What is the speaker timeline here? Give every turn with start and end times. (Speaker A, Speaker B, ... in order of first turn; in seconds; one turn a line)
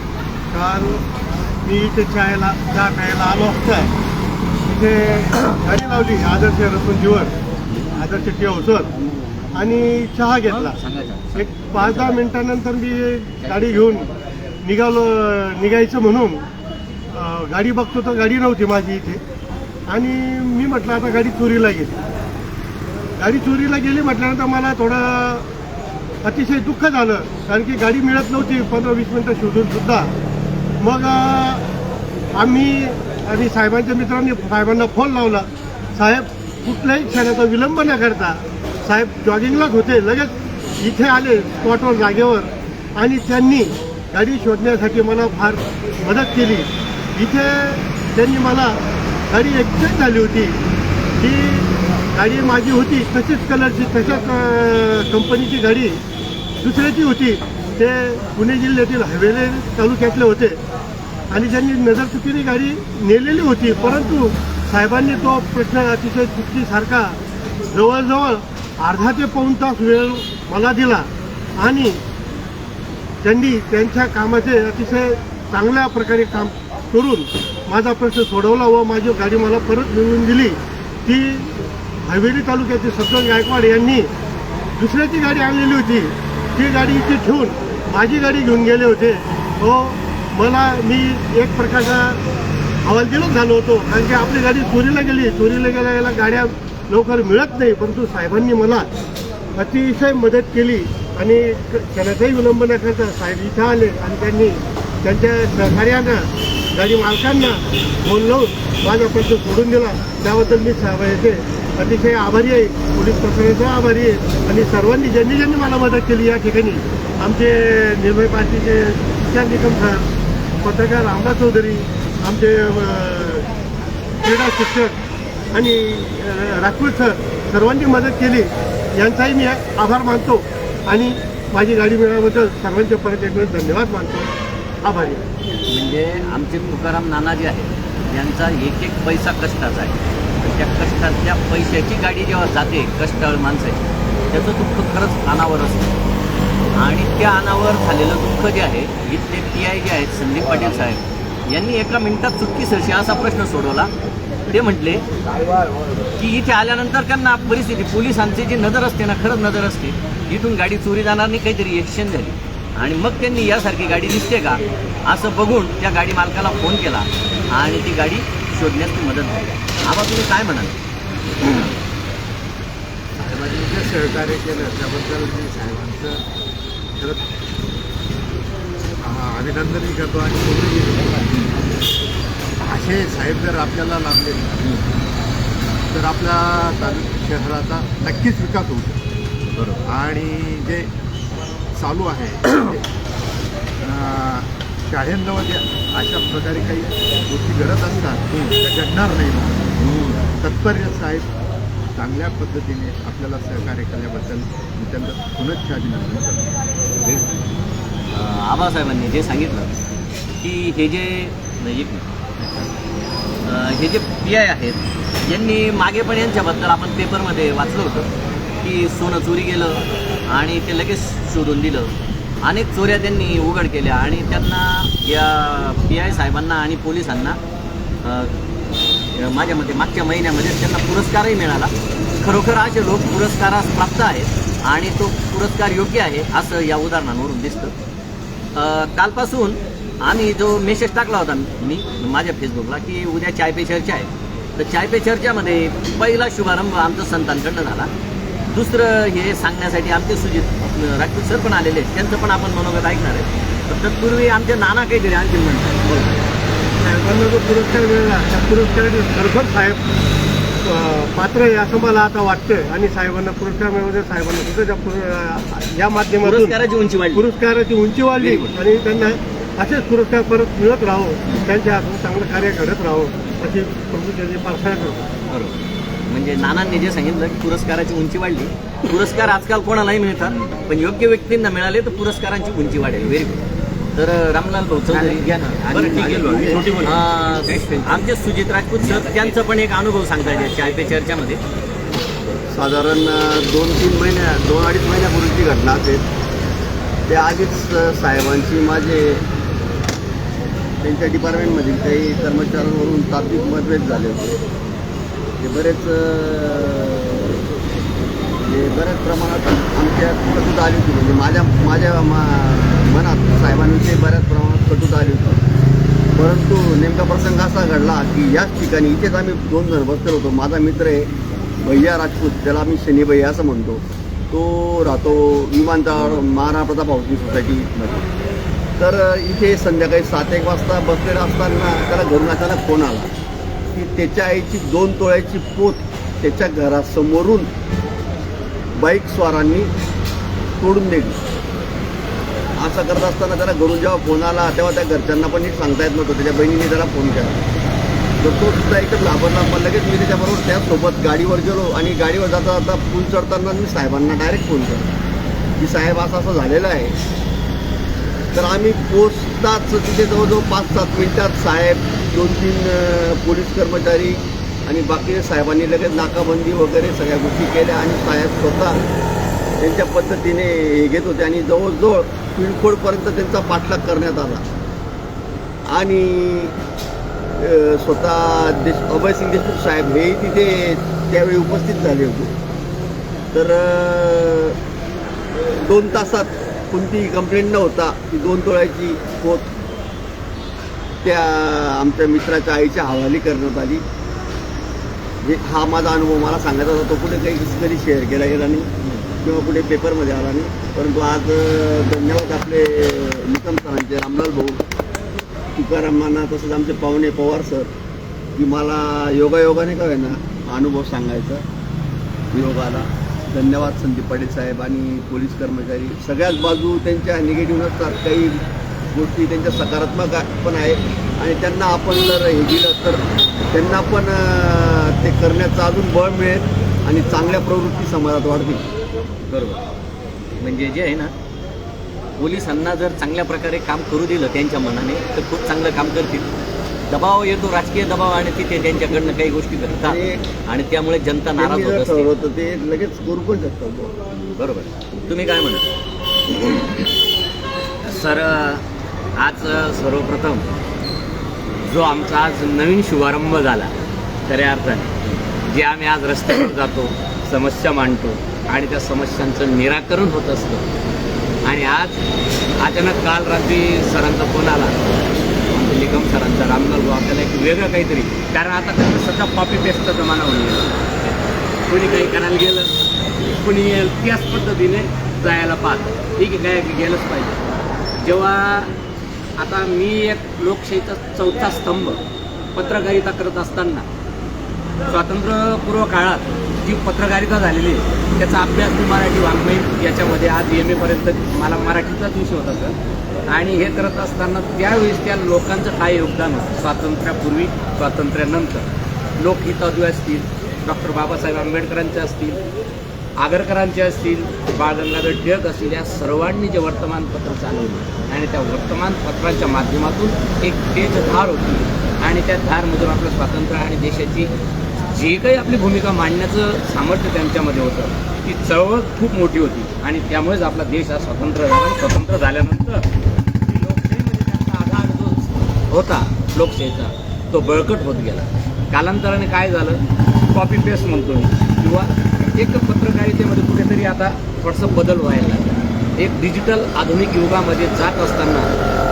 Speaker A: 0.5-1.0
Speaker A: 1.6-3.9
Speaker A: 4.7-7.3
Speaker A: 7.9-8.9
Speaker A: 9.5-10.8
Speaker B: 10.5-12.3
Speaker A: 11.3-14.1
Speaker B: 13.4-14.0
Speaker A: 14.6-16.4
Speaker A: 17.1-19.2
Speaker A: 19.9-22.0
Speaker A: 23.2-25.5
Speaker A: 26.2-30.1
Speaker A: 30.8-31.7
Speaker A: 32.3-50.6
Speaker A: 51.2-56.0
Speaker A: 56.6-60.6
Speaker A: 61.3-67.2
Speaker A: 67.7-72.0
Speaker A: 73.2-81.5
Speaker A: 82.0-84.1
Speaker A: 84.8-92.2
Speaker A: 92.8-98.9
Speaker A: 99.5-120.1
Speaker A: 120.6-123.5
Speaker A: 124.2-125.0
Speaker A: 125.5-135.2
Speaker B: 135.7-145.9
Speaker B: 146.7-153.9
Speaker B: 154.5-155.1
Speaker B: 156.1-170.8
Speaker C: 173.2-176.2
Speaker C: 177.0-177.2
Speaker C: 179.0-181.2
Speaker C: 182.6-184.6
Speaker B: 184.6-184.8
Speaker C: 185.9-189.0
Speaker B: 189.5-189.8
Speaker C: 189.8-190.9
Speaker C: 191.7-192.8
Speaker C: 193.8-199.7
Speaker B: 199.8-200.2
Speaker C: 200.3-201.3
Speaker C: 201.9-206.6
Speaker B: 208.1-209.8
Speaker B: 210.4-212.1
Speaker B: 213.4-218.1
Speaker B: 218.6-221.9
Speaker B: 222.4-227.4
Speaker B: 228.0-228.3
Speaker B: 229.1-237.7
Speaker B: 238.5-247.9
Speaker B: 248.5-256.1
Speaker A: 256.8-259.8
Speaker A: 260.6-266.6
Speaker B: 266.2-267.3
Speaker A: 267.1-275.1
Speaker B: 268.1-268.6
Speaker B: 275.3-283.4
Speaker B: 283.9-291.4
Speaker D: 284.9-286.7
Speaker E: 285.8-287.0
Speaker E: 289.0-289.3
Speaker D: 292.5-296.0
Speaker D: 297.1-299.2
Speaker D: 300.8-304.3
Speaker D: 305.4-307.4
Speaker D: 308.4-315.4
Speaker D: 316.1-321.1
Speaker D: 321.6-328.1
Speaker D: 328.8-333.1
Speaker D: 333.7-337.5
Speaker D: 338.8-339.7
Speaker D: 340.6-341.2
Speaker D: 342.6-347.4
Speaker D: 348.2-354.9
Speaker D: 355.6-356.9
Speaker D: 358.3-368.8
Speaker D: 369.6-374.4
Speaker D: 375.6-376.6
Speaker D: 377.4-382.3
Speaker D: 383.3-384.6
Speaker D: 385.3-389.5
Speaker D: 391.0-393.8
Speaker D: 395.2-404.6
Speaker D: 405.6-407.7
Speaker D: 408.4-411.4
Speaker D: 412.3-428.6
Speaker B: 429.3-429.6
Speaker B: 430.4-431.1
Speaker B: 432.2-436.3
Speaker B: 436.9-442.1
Speaker D: 439.8-440.2
Speaker D: 441.4-443.9
Speaker B: 444.3-445.6
Speaker E: 447.8-448.6
Speaker E: 449.1-450.4
Speaker E: 451.6-453.7
Speaker E: 454.3-454.9
Speaker E: 455.4-460.6
Speaker E: 461.4-462.0
Speaker E: 462.6-464.7
Speaker E: 465.5-471.1
Speaker E: 471.7-472.7
Speaker E: 473.2-477.4
Speaker E: 478.0-478.7
Speaker E: 479.4-482.0
Speaker E: 482.6-483.8
Speaker E: 484.9-492.8
Speaker E: 493.3-498.6
Speaker E: 499.2-502.4
Speaker E: 503.2-514.3
Speaker E: 514.9-522.9
Speaker E: 523.5-538.5